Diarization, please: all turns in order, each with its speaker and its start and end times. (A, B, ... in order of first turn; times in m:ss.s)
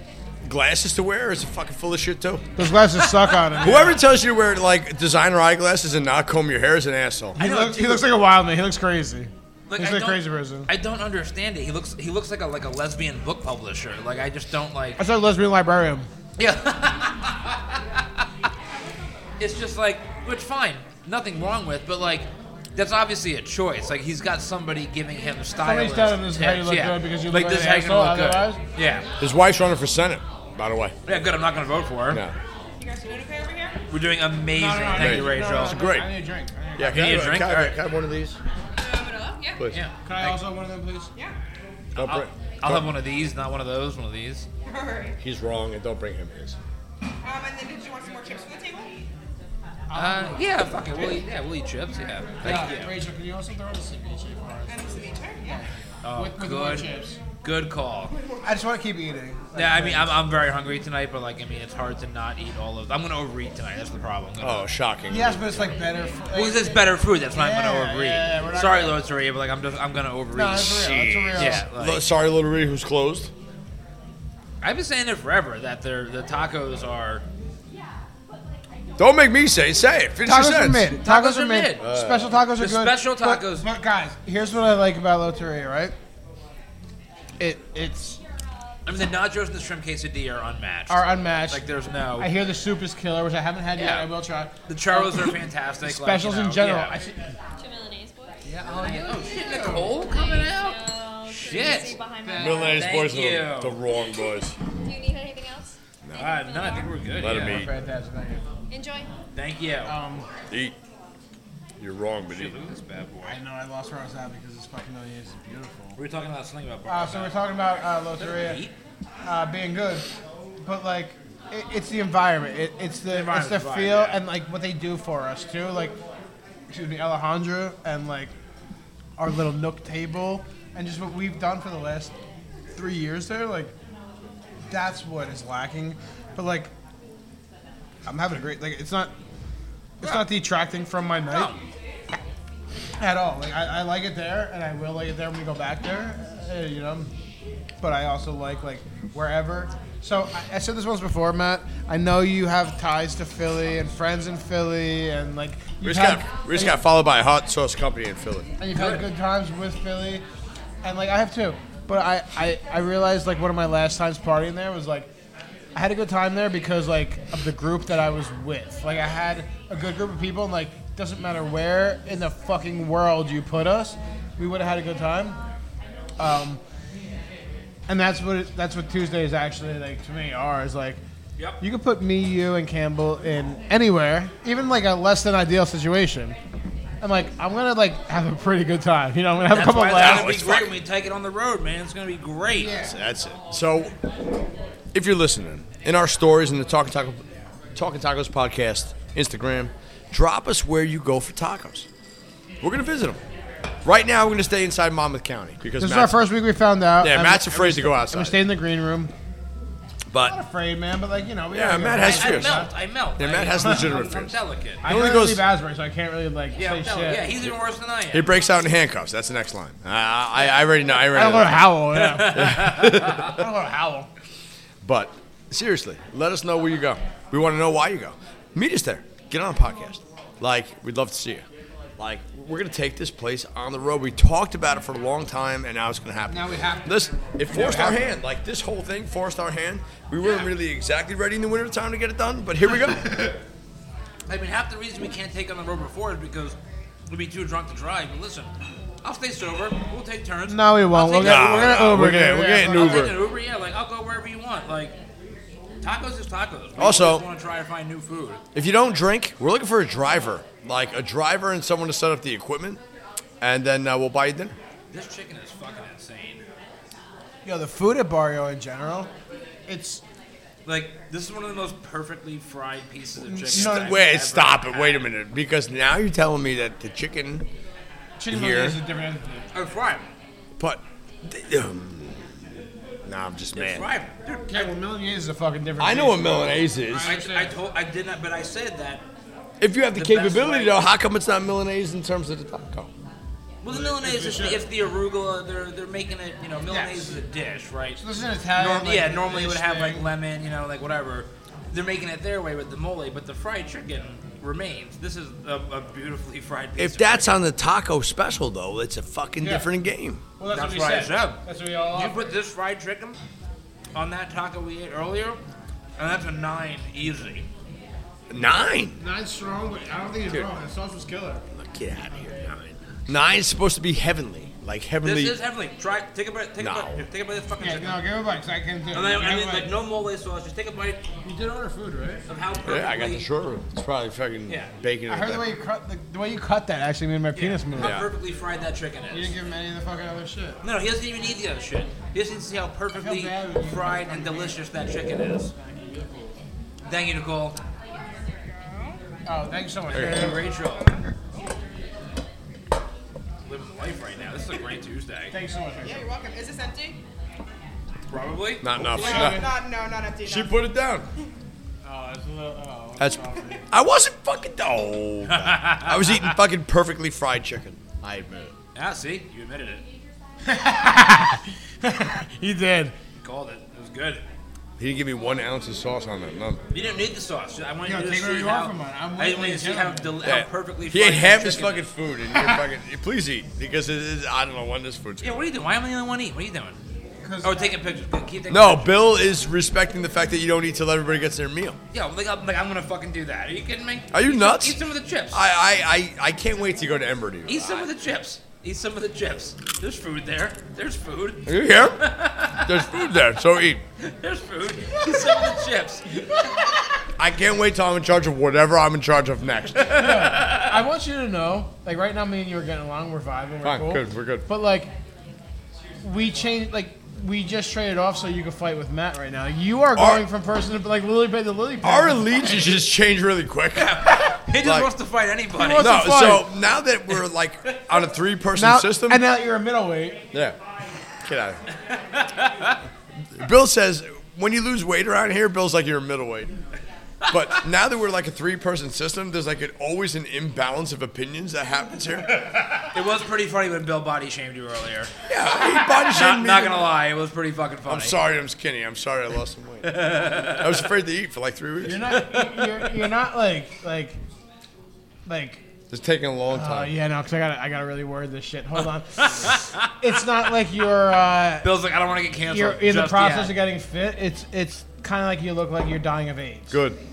0:00.4-0:02.4 A
0:02.6-0:04.0 B
0:03.0-0:04.0 C
0:03.6-0:07.4 A
0:07.4-0:08.0 C
0:07.4-0:10.7 B
0:09.7-0:15.0 C
0:15.0-0:16.1 B
0:16.4-0:18.0 C
0:19.4-0:29.1 C
0:25.6-0:28.6 B
0:29.2-0:31.0 A
0:31.1-0:32.2 C
0:32.1-0:32.4 A
0:32.8-0:33.8 D
0:33.9-0:35.8 C
0:34.5-0:37.3 B
0:35.0-0:36.1 A
0:36.8-0:38.4 A
0:36.8-0:37.8 C
0:38.8-0:39.6 D
0:39.7-0:40.4 C
0:40.0-0:41.1 B
0:42.0-0:42.9 A
0:42.0-0:44.5 C
0:44.6-0:45.2 D
0:45.2-0:46.6 A
0:47.2-0:49.0 D
0:49.9-0:51.2 B
0:49.9-0:52.9 C
0:52.4-0:57.2 B
0:54.7-0:55.6 D
0:56.0-0:56.9 C
0:57.4-0:58.1 C
0:58.1-0:58.5 D
0:58.4-1:00.2 B
0:59.6-1:04.7 C
1:04.4-1:05.8 A
1:05.1-1:09.0 B
1:06.3-1:12.0 C
1:10.3-1:11.6 B
1:10.8-1:13.3 A
1:14.6-1:17.2 C
1:19.0-1:20.9 A
1:20.2-1:25.9 B
1:21.0-1:21.8 C
1:21.8-1:22.4 A
1:22.6-1:23.7 C
1:27.4-1:28.2 B
1:28.9-1:32.3 C
1:30.9-1:31.6 B
1:32.2-1:37.3 B
1:33.8-1:34.1 C
1:34.7-1:37.0 C
1:37.6-1:38.4 E
1:38.5-1:39.9 B
1:38.6-1:43.8 C
1:39.6-1:42.9 E
1:42.4-1:44.6 A
1:44.8-1:46.9 E
1:46.0-1:46.4 A
1:46.2-1:47.6 C
1:47.2-1:47.7 A
1:47.2-1:48.4 B
1:48.7-1:49.1 E
1:49.4-1:50.0 C
1:49.9-1:50.3 B
1:50.5-1:50.8 A
1:51.8-1:52.6 A
1:52.3-1:53.4 C
1:53.2-1:56.0 B
1:56.0-1:57.5 C
1:56.9-1:58.6 B
1:58.2-1:58.8 C
1:59.2-2:00.1 B
2:00.6-2:06.0 B
2:03.1-2:04.2 C
2:06.7-2:08.3 B
2:09.2-2:12.1 B
2:12.7-2:13.7 B
2:14.7-2:16.7 B
2:18.0-2:19.1 B
2:20.0-2:21.6 B
2:21.3-2:21.6 C
2:23.0-2:27.1 B
2:27.8-2:36.8 B
2:35.8-2:38.5 A
2:38.6-2:40.2 B
2:38.7-2:39.0 C
2:40.8-2:45.1 B
2:45.8-2:55.4 B
2:56.2-2:56.6 B
2:57.9-3:01.0 B
3:01.6-3:06.4 B
3:07.0-3:10.4 B
3:09.5-3:12.8 C
3:10.0-3:10.7 A
3:12.5-3:13.0 B
3:12.8-3:13.9 A
3:14.9-3:21.9 A
3:22.6-3:23.2 A
3:23.8-3:26.2 A
3:25.8-3:29.1 B
3:27.0-3:28.4 A
3:30.1-3:30.4 A
3:30.2-3:32.7 B
3:31.5-3:32.7 A
3:32.0-3:34.8 C
3:33.2-3:35.4 A
3:33.6-3:34.1 B
3:34.8-3:37.3 B
3:36.6-3:38.3 C
3:38.1-3:41.6 A
3:41.0-3:44.1 B
3:41.9-3:43.4 C
3:42.3-3:43.4 A
3:44.8-3:51.5 A
3:52.0-4:03.2 A
3:56.3-3:58.2 B
4:04.3-4:06.6 C
4:07.1-4:08.5 C
4:09.0-4:12.0 C
4:10.5-4:13.2 B
4:11.2-4:13.2 A
4:12.6-4:15.0 C
4:15.8-4:18.4 C
4:16.8-4:17.2 A
4:18.5-4:22.8 A
4:23.4-4:24.6 A
4:24.9-4:26.4 C
4:27.4-4:29.1 B
4:29.7-4:30.0 B
4:30.7-4:35.1 C
4:33.2-4:34.0 B
4:33.5-4:37.5 A
4:38.2-4:39.4 B
4:38.3-4:38.8 A
4:39.5-4:40.1 C
4:40.6-4:42.3 A
4:43.0-4:43.9 A
4:43.5-4:44.7 C
4:44.5-4:47.6 B
4:45.8-4:47.1 A
4:47.0-4:49.0 C
4:49.6-4:52.9 A
4:49.9-4:50.8 C
4:53.6-4:58.0 C
4:53.7-4:54.7 B
4:56.7-4:57.2 B
4:58.0-5:00.1 B
4:58.6-5:07.4 C
5:06.8-5:10.2 A
5:09.4-5:09.7 B
5:10.4-5:12.3 B
5:10.5-5:11.4 C
5:11.9-5:13.2 C
5:14.0-5:15.4 C
5:16.0-5:17.5 C
5:18.3-5:19.0 A
5:19.0-5:21.4 B
5:21.5-5:25.4 A
5:25.0-5:28.0 C
5:26.6-5:27.0 A
5:27.6-5:29.7 B
5:28.9-5:31.0 C
5:31.2-5:32.2 B
5:32.3-5:33.3 C
5:32.6-5:35.5 A
5:34.5-5:34.7 C
5:35.1-5:38.0 B
5:37.3-5:39.3 C
5:37.8-5:38.1 A
5:39.1-5:40.6 B
5:40.6-5:45.5 C
5:42.9-5:44.6 B
5:45.6-5:46.3 B
5:46.8-5:47.6 C
5:48.6-5:49.0 D
5:49.3-5:50.4 B
5:49.9-5:50.3 A
5:49.9-5:50.9 C
5:50.6-5:51.5 D
5:53.4-5:55.3 C
5:55.3-5:56.1 B
5:55.8-5:57.0 D
5:58.1-5:58.6 C
5:58.6-5:59.5 A
5:58.7-5:59.6 B
5:58.9-6:00.6 D
6:00.2-6:01.1 A
6:01.8-6:03.6 B
6:03.0-6:08.5 A
6:05.2-6:06.4 C
6:08.8-6:09.8 C
6:10.4-6:12.9 B
6:13.2-6:14.2 C
6:14.8-6:16.6 A
6:16.7-6:21.9 C
6:17.8-6:20.2 B
6:20.2-6:25.4 A
6:25.2-6:26.8 C
6:27.2-6:27.7 B
6:27.4-6:29.0 C
6:28.5-6:31.8 A
6:31.9-6:35.4 C
6:34.1-6:34.8 A
6:35.3-6:37.9 A
6:37.5-6:42.8 C
6:41.5-6:43.8 A
6:44.0-6:46.0 C
6:47.2-6:50.0 A
6:49.7-6:50.8 C
6:49.9-6:54.9 B
6:53.6-6:54.4 A
6:56.0-7:02.7 B
7:00.0-7:00.2 A
7:01.8-7:04.9 A
7:03.8-7:06.0 C
7:05.6-7:06.5 B
7:05.8-7:09.2 A
7:08.6-7:10.2 B
7:11.2-7:11.6 A
7:11.8-7:12.8 C
7:13.3-7:16.5 A
7:17.2-7:17.6 C
7:17.3-7:22.3 A
7:22.9-7:28.2 C
7:25.3-7:26.9 A
7:27.9-7:32.0 A
7:29.8-7:30.8 C
7:31.8-7:34.2 B
7:32.1-7:32.9 C
7:35.3-7:35.6 B
7:35.9-7:36.9 A
7:36.5-7:41.7 B
7:39.2-7:39.9 C
7:41.6-7:43.6 C
7:42.5-7:46.8 B
7:46.7-7:47.0 A